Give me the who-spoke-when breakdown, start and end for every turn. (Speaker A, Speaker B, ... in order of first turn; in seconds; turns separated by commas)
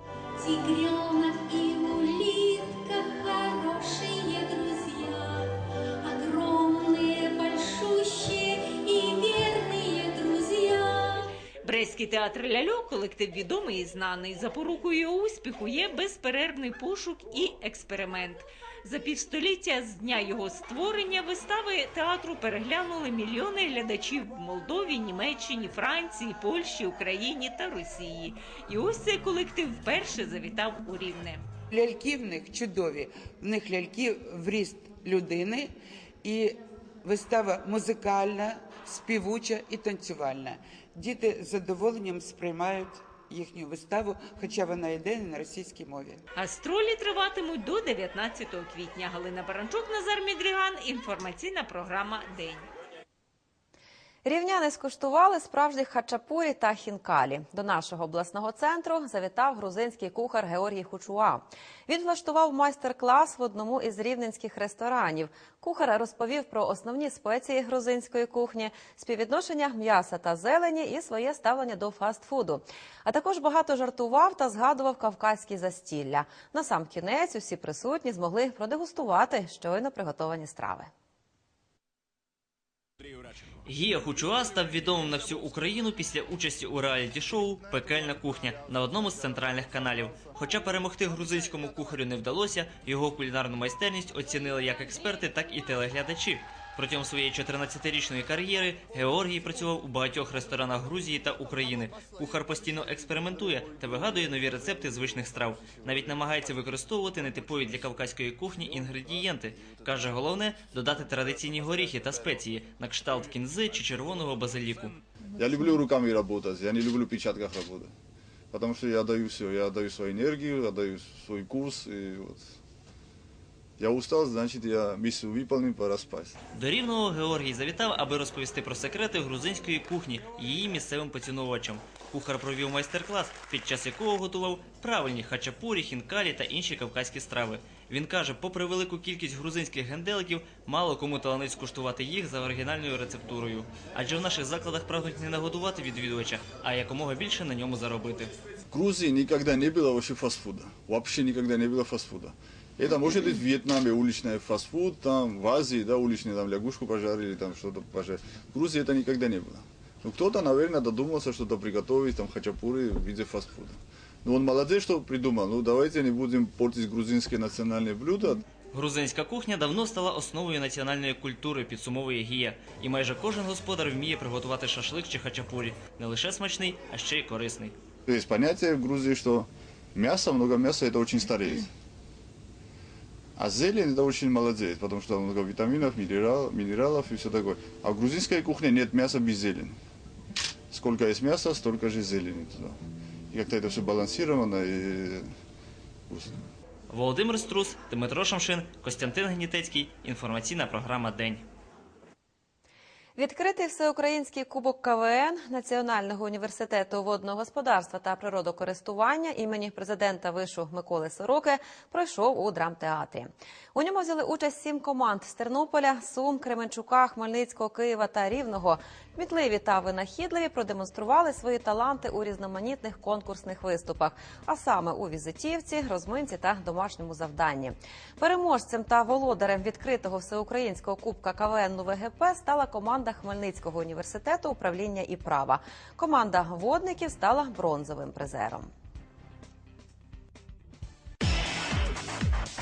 Speaker A: 1.7-4.1, Speaker B: 11.6-31.4, Speaker C: 31.7-46.2, Speaker B: 46.3-52.7, Speaker D: 54.2-80.9, Speaker E: 83.7-114.9, Speaker F: 115.3-117.9, Speaker F: 118.5-122.5, Speaker F: 123.8-126.3, Speaker E: 126.5-148.3, Speaker F: 148.7-168.4, Speaker E: 168.7-177.7, Speaker F: 178.1-181.7, Speaker F: 183.4-189.8, Speaker F: 190.7-192.8, Speaker F: 193.3-195.3, Speaker F: 196.1-196.4, Speaker E: 196.9-201.4, Speaker D: 203.2-238.7